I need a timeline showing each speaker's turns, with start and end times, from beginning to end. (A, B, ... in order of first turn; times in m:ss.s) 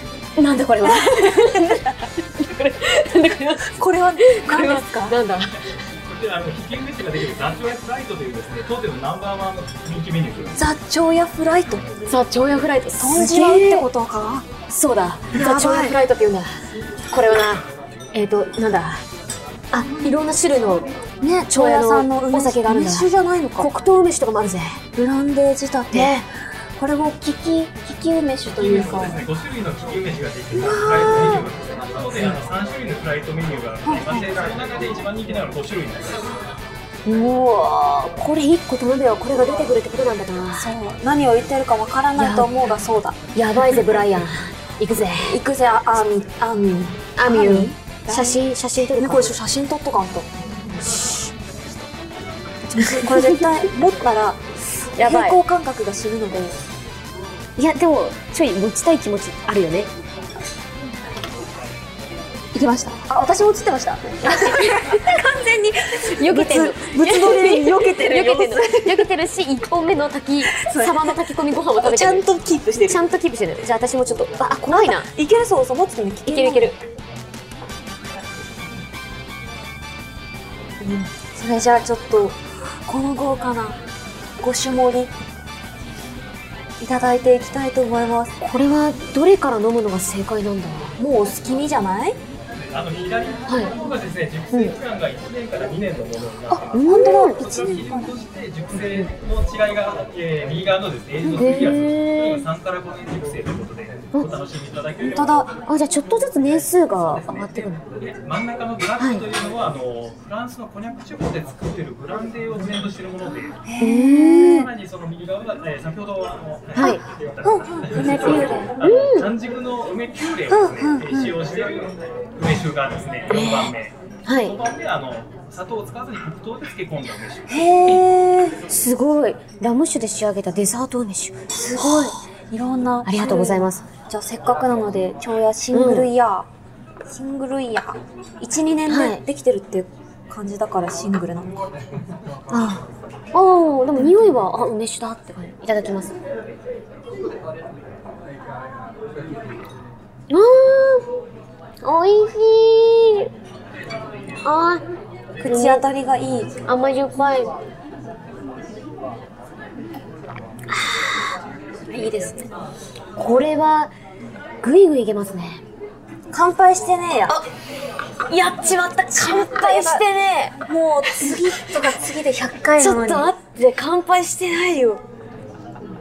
0:00.4-0:05.5 A
0:00.8-0:02.0 B
0:03.6-0:05.2 B
0:06.0-0:10.6 C
0:10.6-0:11.9 B
0:12.1-0:13.9 A
0:12.9-0:14.4 B
0:14.7-0:16.5 A
0:15.3-0:16.0 B
0:17.1-0:19.0 A
0:19.7-0:20.9 A
0:21.2-0:23.7 B
0:21.5-0:24.8 A
0:25.0-0:26.2 B
0:25.9-0:26.3 A
0:26.8-0:29.2 B
0:28.6-0:36.3 C
0:30.5-0:31.5 B
0:33.8-0:34.3 B
0:37.1-0:40.7 A
0:40.5-0:43.9 B
0:42.2-0:42.5 A
0:43.4-0:45.4 A
0:45.2-0:50.3 B
0:47.2-0:49.3 A
0:52.6-0:54.4 B
0:52.8-0:53.4 A
0:54.9-0:55.4 A
0:55.0-0:56.6 B
0:57.6-0:59.9 A
1:02.5-1:09.1 B
1:04.2-1:05.1 A
1:06.0-1:12.2 A
1:10.5-1:11.2 B
1:11.8-1:13.0 B
1:12.8-1:15.1 A
1:14.7-1:16.7 B
1:16.3-1:16.8 A
1:20.8-1:23.8 B
1:24.4-1:25.1 B
1:26.8-1:28.4 B
1:28.4-1:31.0 A
1:31.0-1:32.2 B
1:32.7-1:45.6 C
1:33.5-1:33.7 A
1:36.5-1:38.1 B
1:36.7-1:37.4 A
1:41.3-1:42.4 A
1:45.0-1:45.5 B
1:45.6-1:47.8 A
1:46.3-1:53.6 C
1:49.0-1:49.2 A
1:53.6-1:54.7 B
1:53.8-1:54.7 A
1:54.2-2:07.8 C
1:56.8-1:57.0 A
1:56.8-1:58.8 B
1:58.8-1:59.3 A
2:00.5-2:01.4 B
2:03.3-2:03.7 A
2:04.2-2:04.6 A
2:07.5-2:08.6 B
2:08.7-2:12.2 A
2:11.5-2:16.5 B
2:13.0-2:13.9 A
2:15.7-2:16.1 A
2:17.1-2:21.5 B
2:18.9-2:19.2 A
2:22.5-2:26.1 A
2:30.3-2:31.1 A
2:31.8-2:33.3 A
2:34.4-2:34.8 A
2:35.4-2:36.6 B
2:35.4-2:35.9 A
2:36.7-2:37.6 A
2:40.7-2:41.4 A
2:41.9-2:42.4 A
2:43.2-2:43.9 A
2:44.6-2:45.6 A
2:46.3-2:47.4 B
2:48.3-2:50.0 B
2:48.3-2:51.6 A
2:50.7-2:53.3 B
2:52.8-2:54.9 A
2:54.3-2:55.0 B